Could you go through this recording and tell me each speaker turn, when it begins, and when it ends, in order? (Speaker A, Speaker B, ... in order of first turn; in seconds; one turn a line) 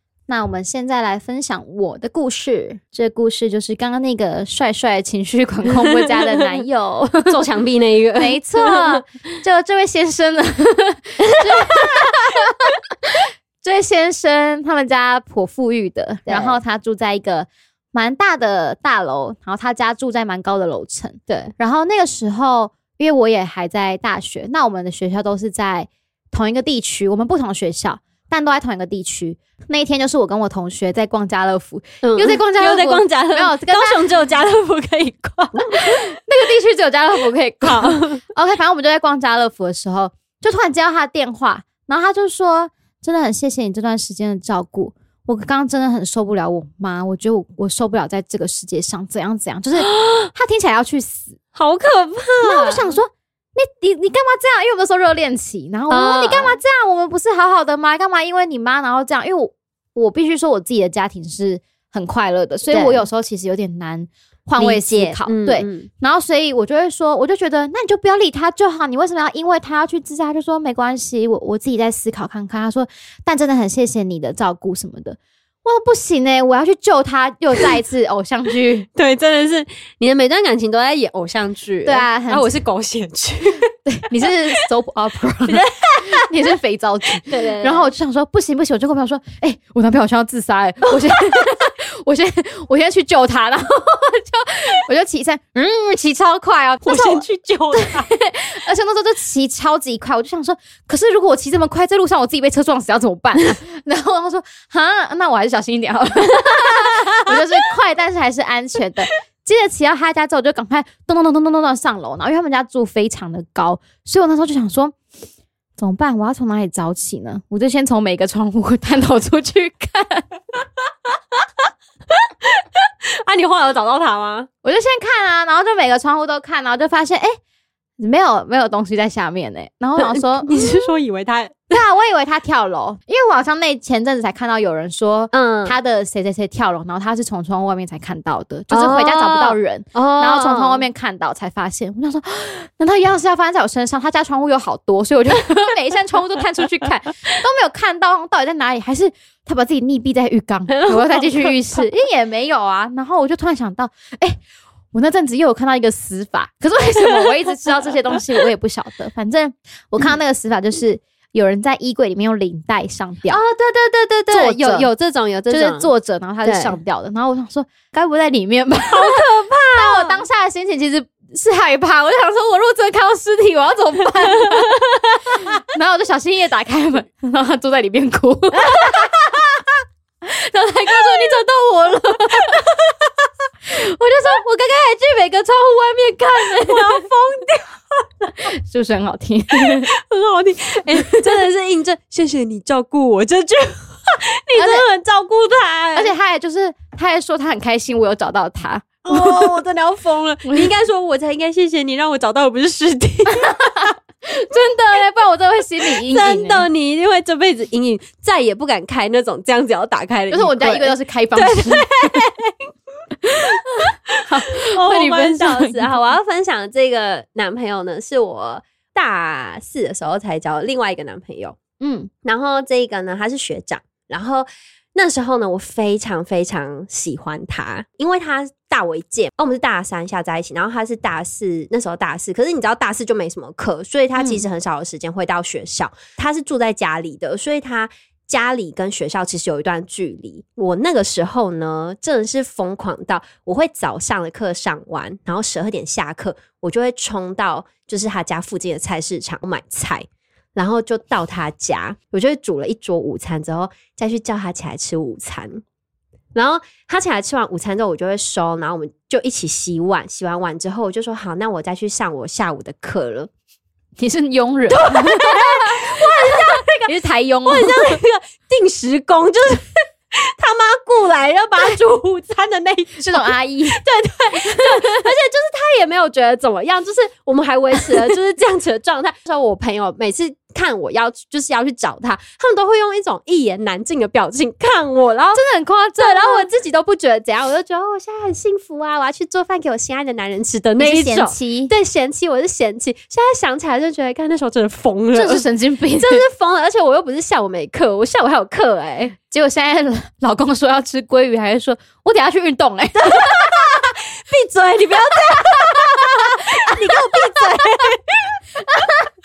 Speaker A: 0.3-7.4
Speaker B: 5.9-6.2
Speaker B: 7.3-9.0
Speaker A: 8.2-34.1
Speaker B: 11.3-12.1
Speaker B: 16.3-16.6
Speaker B: 32.0-36.0
Speaker A: 35.6-51.4
Speaker B: 37.6-38.2
Speaker B: 49.8-50.3
Speaker B: 51.5-52.9
Speaker A: 52.4-78.9
Speaker B: 55.9-56.6
Speaker B: 62.7-63.0
Speaker B: 64.6-65.9
Speaker B: 78.9-83.7
Speaker A: 81.8-82.5
Speaker A: 83.8-114.9
Speaker B: 85.5-86.3
Speaker B: 87.2-87.9
Speaker B: 96.8-98.1
Speaker B: 106.8-107.4
Speaker A: 115.8-120.3
Speaker B: 122.1-124.5
Speaker A: 124.6-127.4
Speaker A: 128.0-130.9
Speaker B: 130.0-131.8
Speaker A: 131.7-154.4
Speaker B: 135.3-135.7
Speaker B: 138.7-140.8
Speaker B: 150.7-151.8
Speaker A: 154.9-163.4
Speaker B: 157.1-157.3
Speaker B: 163.3-165.9
Speaker A: 164.3-164.9
Speaker A: 165.5-169.2
Speaker B: 166.4-166.8
Speaker B: 168.9-170.2
Speaker A: 169.7-174.7
Speaker B: 174.4-174.8
Speaker A: 175.3-179.1
Speaker B: 178.6-179.5
Speaker A: 180.2-182.7
Speaker B: 182.5-182.9
Speaker A: 183.7-187.1
Speaker B: 186.4-188.3
Speaker A: 188.4-189.9
Speaker B: 189.6-196.1
Speaker A: 194.6-194.8
Speaker A: 195.9-199.6
Speaker B: 199.0-203.9
Speaker A: 203.3-206.7
Speaker B: 205.8-212.6
Speaker A: 210.3-212.2
Speaker A: 213.2-215.9
Speaker B: 214.1-221.6
Speaker A: 221.8-222.1
Speaker B: 222.2-255.6
Speaker A: 234.2-234.4
Speaker B: 256.3-263.3
Speaker A: 264.0-268.0
Speaker B: 264.7-266.9
Speaker B: 267.4-285.4
Speaker A: 273.0-273.8
Speaker A: 274.3-275.0
Speaker A: 285.3-286.5
Speaker B: 286.0-299.1
Speaker A: 290.8-291.7
Speaker A: 295.1-296.2
Speaker A: 299.3-303.6
Speaker B: 303.0-308.4
Speaker A: 305.3-307.9
Speaker A: 308.7-309.1